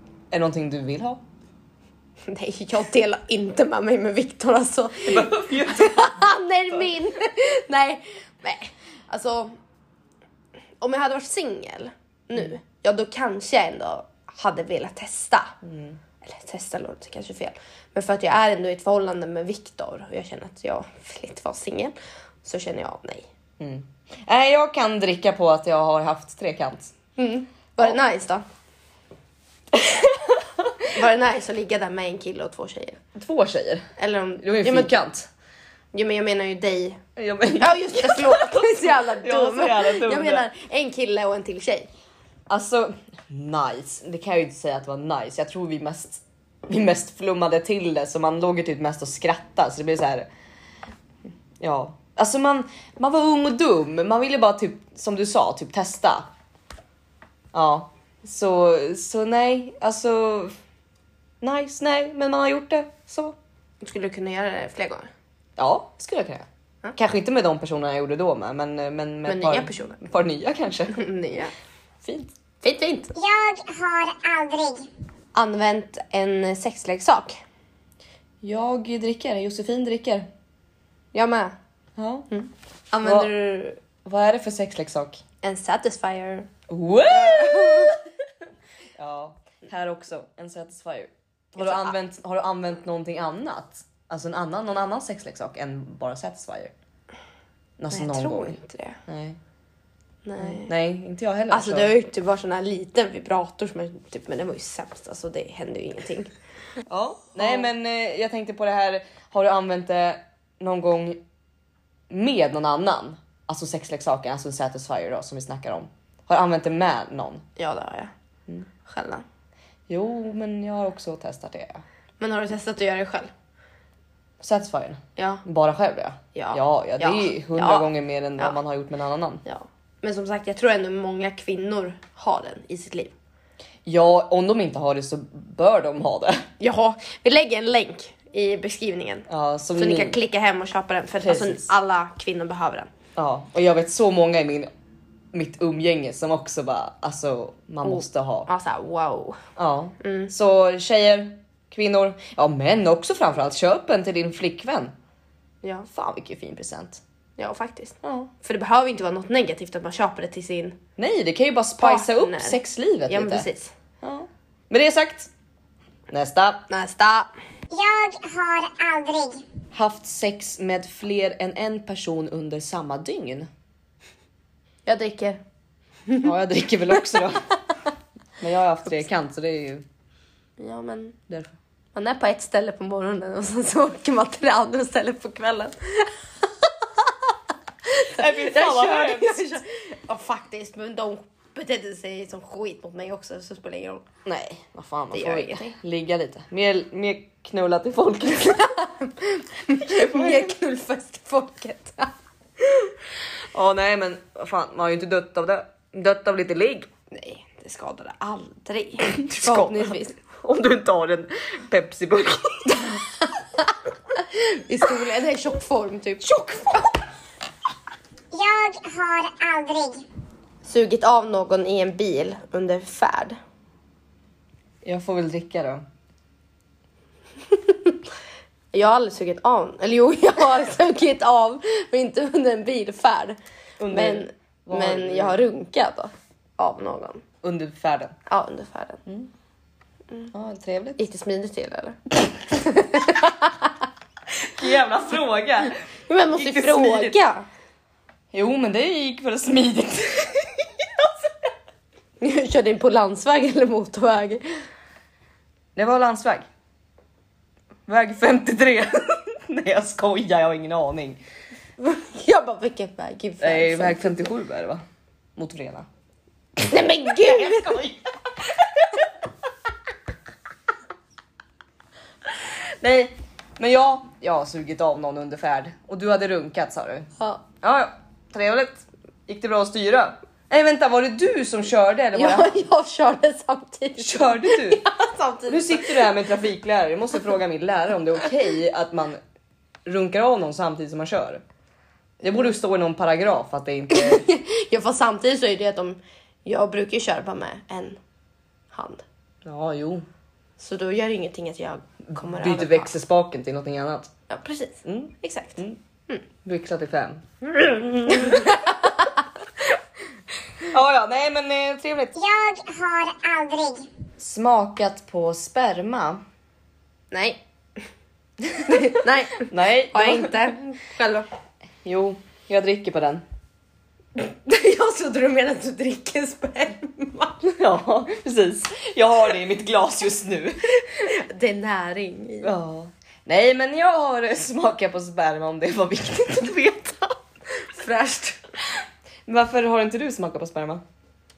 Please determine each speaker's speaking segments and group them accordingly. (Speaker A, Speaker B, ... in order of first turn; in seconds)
Speaker A: 0.3-1.2, 5.1-6.3, 15.6-16.0, 23.6-26.9, 29.7-30.7, 33.1-35.3, 37.2-40.5, 42.5-50.3, 51.6-56.3, 57.5-60.5, 61.4-63.4, 65.6-71.0, 72.0-72.3, 78.4-80.3, 82.0-82.3, 83.0-83.3, 84.0-85.2, 86.7-88.0, 89.0-96.7, 97.8-99.4, 100.4-101.9, 106.9-111.2, 112.1-117.4, 119.9-121.8, 124.4-129.4, 133.8-136.4, 139.3-140.2, 141.2-141.7, 143.2-144.7, 145.3-148.5, 149.6-154.9, 155.9-157.0, 158.0-158.3, 161.0-163.5, 164.0-165.3, 166.1-166.7, 169.7-173.5, 176.2-177.6, 178.4-179.8, 181.3-181.6, 188.0-189.4, 194.2-198.8, 199.8-200.6, 203.5-206.9, 209.0-212.9, 216.2-217.0, 224.8-225.8, 233.8-235.4, 237.4-238.2, 240.3-241.0, 244.4-245.8, 246.3-247.2, 248.3-251.3, 255.8-256.4, 257.9-261.2, 263.4-264.8, 265.4-265.9, 266.6-269.1, 272.3-277.1, 277.6-282.5, 284.0-284.9, 285.5-289.2, 289.9-291.4, 292.2-294.3, 299.4-300.1, 302.1-304.1, 304.9-305.8, 306.4-308.9, 310.6-312.1, 314.2-316.2, 318.6-320.6, 321.9-323.2, 327.4-330.8, 332.4-337.2, 339.3-340.8
Speaker B: 2.3-9.6, 10.8-15.6, 16.2-23.3, 27.2-28.4, 30.9-33.0, 34.0-34.9, 35.9-37.0, 37.6-41.9, 63.8-65.1, 69.3-70.0, 70.9-71.5, 72.6-73.2, 75.3-77.4, 81.1-81.6, 82.3-83.8, 85.4-86.5, 87.1-88.0, 91.6-92.0, 97.9-99.0, 100.2-100.7, 101.5-106.3, 107.4-107.7, 117.6-118.1, 118.8-119.2, 122.2-123.3, 125.2-125.4, 126.3-128.6, 129.4-133.2, 136.6-142.9, 147.8-149.4, 150.0-150.3, 155.6-155.9, 157.4-160.8, 161.8-163.7, 166.7-167.3, 174.9-175.4, 180.6-181.2, 181.9-187.1, 187.9-194.1, 195.1-195.8, 198.8-202.1, 207.1-210.2, 213.6-216.3, 220.6-223.4, 227.5-228.0, 228.7-233.4, 233.9-237.2, 238.3-239.0, 241.0-243.7, 246.1-247.5, 252.2-254.4, 261.8-264.3, 266.7-267.9, 282.1-286.1, 293.9-298.0, 298.7-299.0, 300.6-302.9, 304.3-306.2, 308.1-309.1, 317.1-317.4, 318.7-321.3, 324.2-327.4, 331.0-332.5, 337.6-338.4
Speaker C: 73.2-74.9, 167.7-169.5, 218.3-220.1, 312.1-313.9